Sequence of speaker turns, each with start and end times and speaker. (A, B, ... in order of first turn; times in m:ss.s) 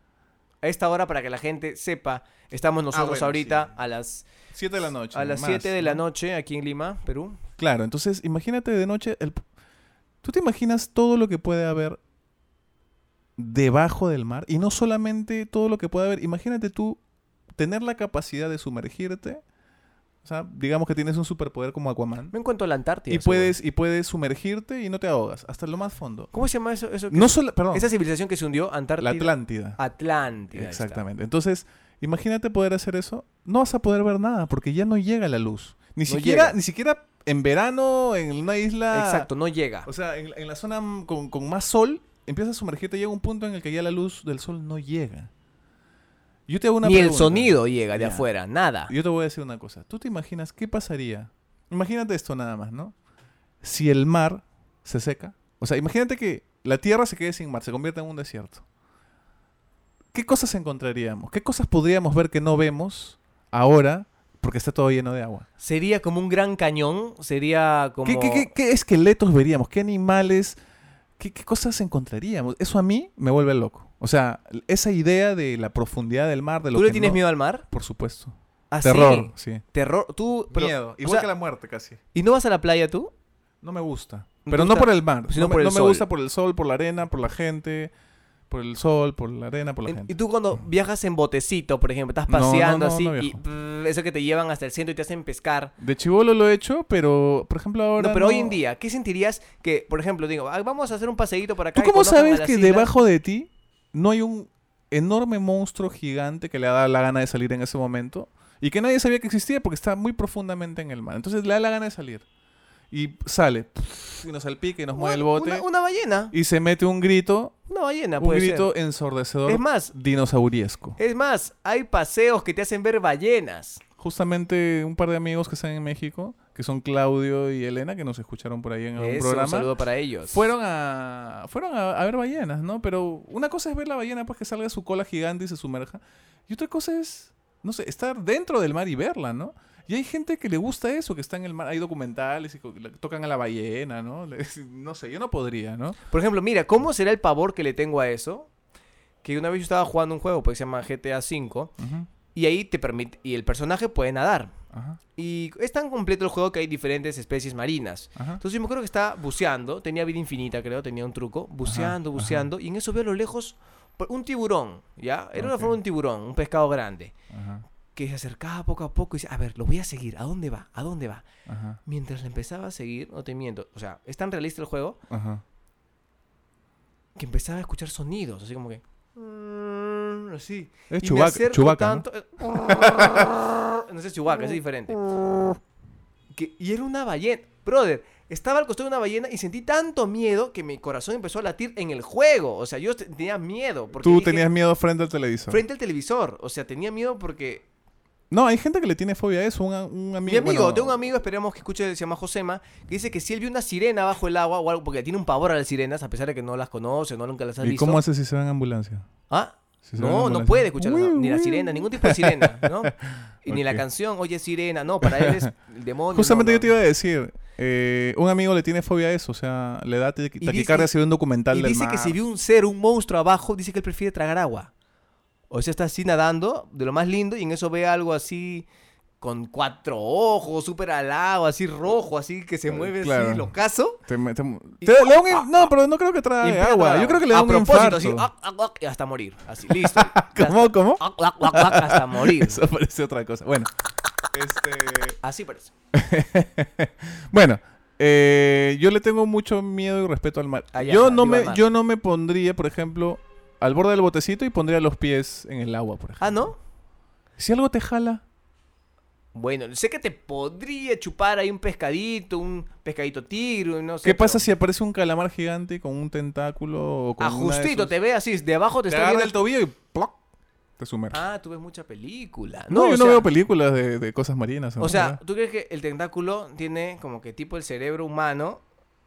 0:00.6-0:04.3 A
0:02.9-0:03.8 B
0:04.5-0:06.0 B
0:05.1-0:07.4 A
0:07.6-0:09.4 B
0:10.2-0:12.0 B
0:13.4-0:17.0 B
0:17.6-0:19.4 B
0:20.2-0:22.3 B
0:22.3-0:23.5 A
0:23.1-0:26.3 B
0:26.3-0:31.0 A
0:27.1-0:27.9 B
0:29.0-0:29.8 B
0:30.5-0:39.3 B
0:36.1-0:36.6 A
0:38.9-0:39.9 A
0:39.9-0:45.3 B
0:46.5-0:48.3 B
0:46.8-0:48.9 A
0:48.9-0:53.0 B
0:53.6-0:58.6 B
1:00.1-1:05.5 B
1:05.6-1:08.5 A
1:08.0-1:10.6 B
1:11.2-1:19.6 B
1:16.7-1:17.6 A
1:18.7-1:21.3 A
1:20.5-1:22.0 B
1:22.1-1:23.1 A
1:23.6-1:27.9 B
1:24.5-1:26.1 A
1:28.5-1:30.1 B
1:29.8-1:35.7 A
1:32.3-1:33.4 B
1:35.8-1:38.6 B
1:38.0-1:42.9 A
1:41.7-1:52.2 B
1:52.9-1:55.6 B
1:54.9-1:56.3 A
1:56.3-1:57.5 B
1:57.7-1:58.7 A
1:58.2-2:01.0 B
1:59.5-1:59.9 A
2:01.0-2:03.8 A
2:04.0-2:09.7 B
2:09.0-2:10.5 A
2:10.3-2:26.0 B
2:26.1-2:28.5 A
2:29.2-2:31.7 A
2:31.8-2:32.1 B
2:32.3-2:34.5 A
2:34.7-2:35.0 B
2:35.2-2:47.1 A
2:38.2-2:38.4 B
2:41.7-2:42.4 B
2:45.4-2:45.7 B
2:47.3-2:47.6 B
2:48.0-2:51.3 A
2:51.5-2:51.8 B
2:51.8-2:55.0 A
2:55.1-2:55.4 B
2:57.2-3:05.4 A
3:00.9-3:03.3 B
3:06.3-3:14.5 A
3:14.0-3:15.6 B
3:15.5-3:17.6 A
3:18.3-3:21.0 B
3:20.3-3:28.0 A
3:27.6-3:29.1 B
3:29.3-3:36.7 A
3:29.8-3:33.8 B
3:35.0-3:35.5 B
3:36.1-3:42.2 B
3:40.4-3:40.9 A
3:41.5-3:44.7 A
3:45.5-3:48.7 A
3:49.2-3:54.0 A
3:52.7-3:53.5 B
3:54.0-3:58.3 B
3:54.8-3:55.7 A
3:56.4-4:02.6 A
3:59.7-4:03.7 B
4:04.3-4:05.2 B
4:05.2-4:05.7 A
4:05.9-4:16.4 B
4:10.7-4:11.6 A
4:16.2-4:16.6 A
4:17.4-4:18.2 B
4:19.3-4:24.5 A
4:24.0-4:27.9 B
4:27.2-4:29.4 A
4:28.9-4:30.2 B
4:30.8-4:31.2 B
4:31.1-4:33.3 A
4:32.7-4:35.2 B
4:34.8-4:38.6 A